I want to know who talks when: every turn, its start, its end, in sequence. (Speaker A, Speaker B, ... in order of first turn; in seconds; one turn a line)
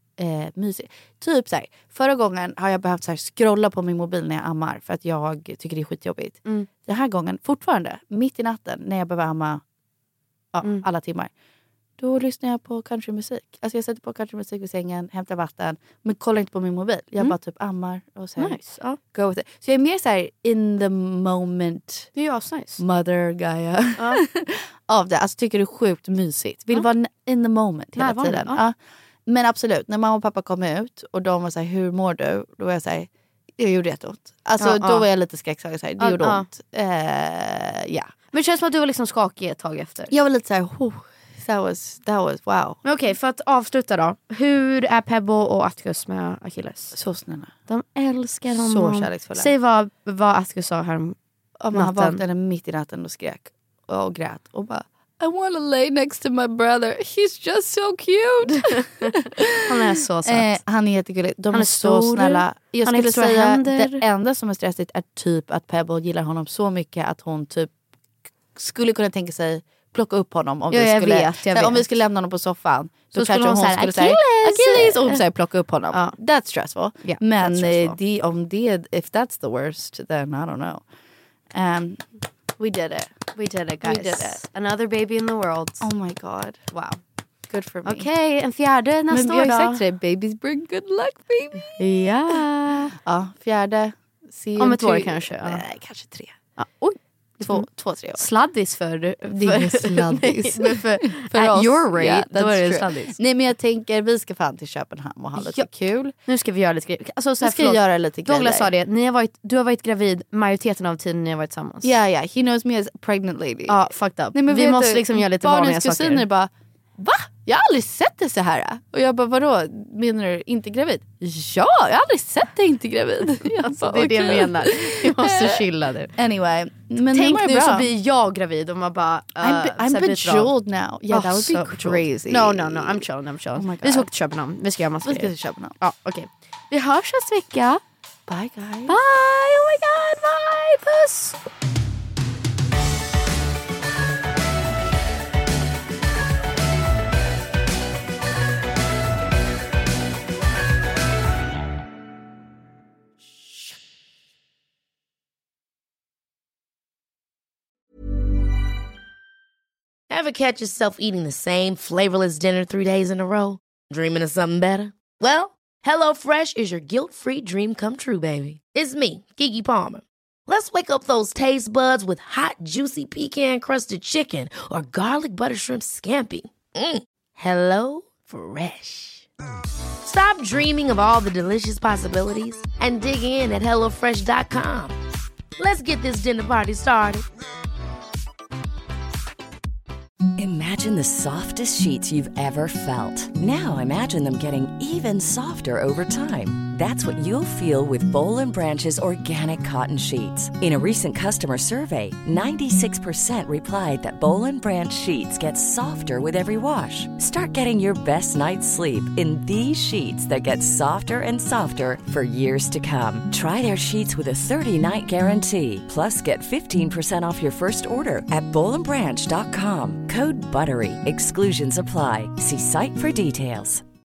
Speaker A: 0.2-9.6
Speaker A: 10.5-11.3
Speaker A: 12.0-22.1
Speaker B: 18.4-19.0
Speaker B: 22.1-22.8
Speaker A: 22.8-28.8
Speaker B: 28.0-28.6
Speaker A: 29.3-38.1
Speaker B: 34.6-35.1
Speaker B: 36.0-36.5
Speaker B: 38.3-40.1
Speaker A: 40.1-42.8
Speaker B: 42.8-47.0
Speaker A: 46.9-47.5
Speaker B: 47.7-51.2
Speaker A: 48.5-49.5
Speaker A: 51.6-67.7
Speaker B: 51.7-52.2
Speaker B: 58.7-60.6
Speaker B: 61.5-64.0
Speaker A: 68.5-80.8
Speaker B: 70.7-71.8
Speaker B: 73.1-75.2
Speaker B: 75.9-76.2
Speaker B: 77.0-78.0
Speaker A: 81.5-83.1
Speaker B: 83.3-85.9
Speaker A: 83.8-84.4
Speaker A: 85.8-86.8
Speaker A: 87.5-88.0
Speaker B: 87.9-89.8
Speaker A: 89.1-91.8
Speaker B: 91.8-92.9
Speaker A: 92.9-96.3
Speaker B: 94.6-95.6
Speaker B: 96.6-103.2
Speaker A: 97.4-98.2
Speaker A: 99.3-106.1
Speaker B: 105.4-105.7
Speaker B: 106.3-111.9
Speaker A: 107.4-108.7
Speaker A: 111.8-125.6
Speaker B: 113.7-116.3
Speaker B: 123.6-126.1
Speaker A: 126.2-127.9
Speaker B: 127.1-130.5
Speaker A: 129.4-134.1
Speaker B: 131.1-137.8
Speaker A: 135.0-135.8
Speaker A: 138.3-139.0
Speaker B: 138.9-141.4
Speaker C: 160.1-179.3
Speaker C: 180.0-185.0
Speaker C: 185.6-187.3
Speaker D: 190.4-223.8